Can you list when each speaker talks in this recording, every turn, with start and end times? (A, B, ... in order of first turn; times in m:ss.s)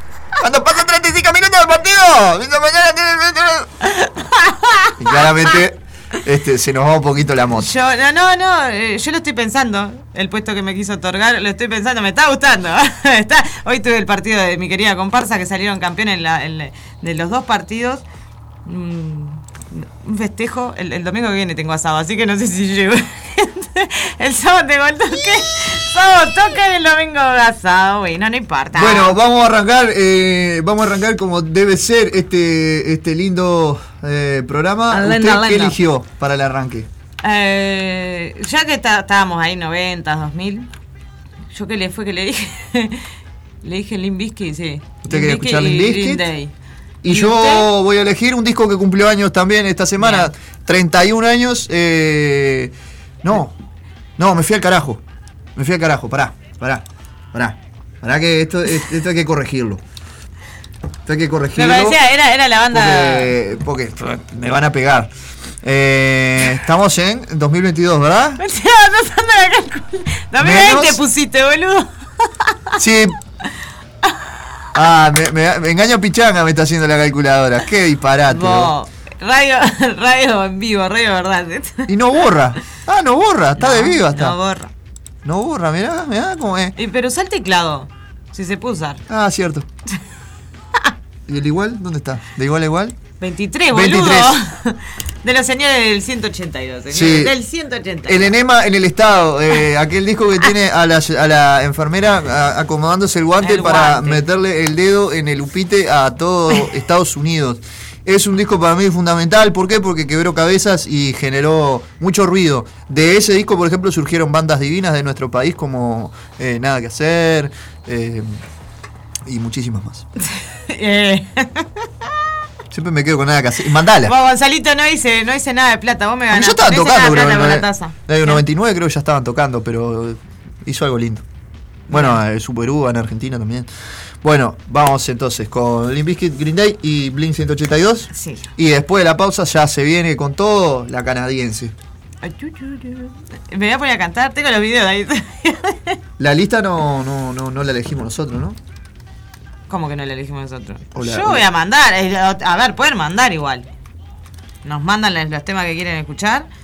0:00.4-0:03.7 A
0:03.9-0:05.6 B
0:05.0-0:07.7 A
0:07.5-0:18.0 B
0:18.6-0:29.2 B
0:28.7-0:36.9 A
0:34.9-0:35.8 B
0:37.2-0:40.7 B
0:41.5-0:43.1 B
0:43.6-0:46.5 B
0:45.0-0:46.2 A
0:47.0-0:53.5 A
0:47.1-0:47.7 B
0:50.0-0:50.3 B
0:54.2-0:55.0 A
0:55.6-0:59.8 A
1:01.1-1:02.0 A
1:01.6-1:03.3 B
1:02.7-1:05.1 A
1:05.6-1:08.4 A
1:08.4-1:11.9 B
1:10.4-1:11.0 A
1:12.8-1:13.2 A
1:14.8-1:18.7 A
1:18.3-1:21.9 B
1:21.9-1:24.4 A
1:23.6-1:24.7 B
1:25.2-1:26.8 A
1:26.8-1:29.0 B
1:29.1-1:29.7 A
1:31.3-1:33.0 A
1:33.2-1:38.3 B
1:33.7-1:34.4 A
1:36.9-1:37.3 A
1:38.1-1:58.4 A
1:43.4-1:44.2 B
1:59.2-2:00.1 A
2:00.4-2:01.9 B
2:02.7-2:04.1 A
2:04.0-2:08.4 B
2:06.3-2:11.3 A
2:11.9-2:13.7 A
2:11.9-2:12.2 B
2:14.2-2:21.8 A
2:18.1-2:18.5 B
2:22.2-2:26.0 B
2:26.2-2:28.6 A
2:29.7-2:33.7 B
2:30.9-2:31.5 A
2:34.6-2:36.5 B